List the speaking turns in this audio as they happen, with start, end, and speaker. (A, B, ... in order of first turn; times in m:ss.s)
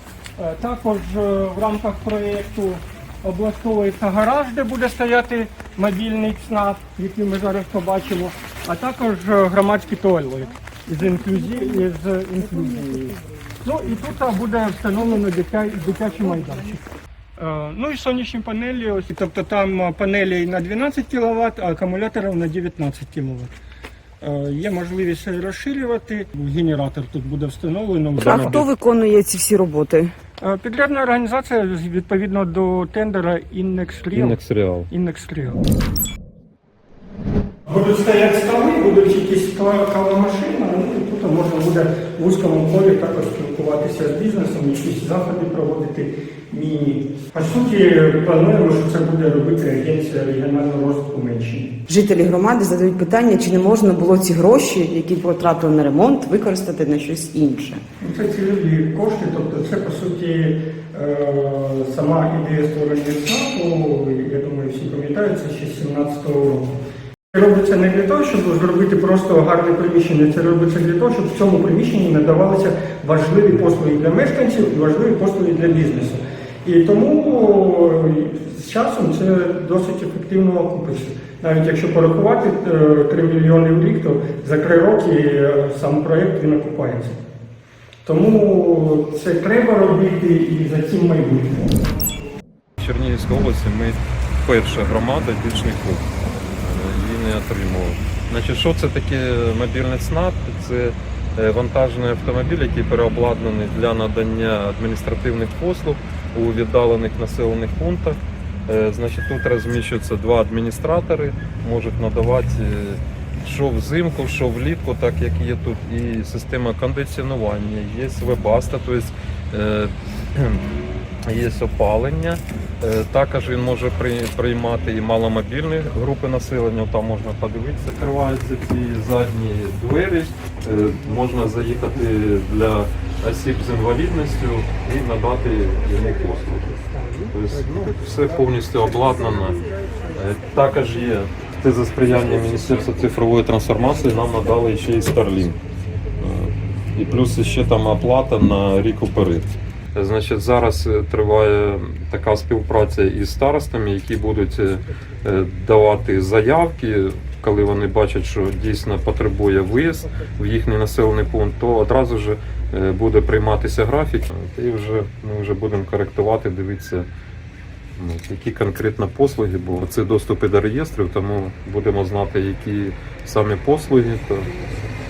0:00.4-0:16.8 A
0:17.4-0:23.5 A
0:24.2-0:28.6 A
0:28.2-0:28.7 B
0:28.2-0:30.1 C
0:30.4-0:34.4 A
0:34.1-0:34.9 B
0:34.9-0:35.6 A
0:37.7-0:51.8 A
0:51.9-0:57.8 C
0:58.0-1:06.7 A
1:07.3-1:27.2 A
1:28.0-1:31.7 A
1:32.8-1:36.0 B
1:36.6-2:00.6 B
2:01.3-2:16.8 B
2:17.3-2:19.6 B
2:20.1-2:25.6 B
2:26.2-2:47.1 B
2:48.0-2:54.5 B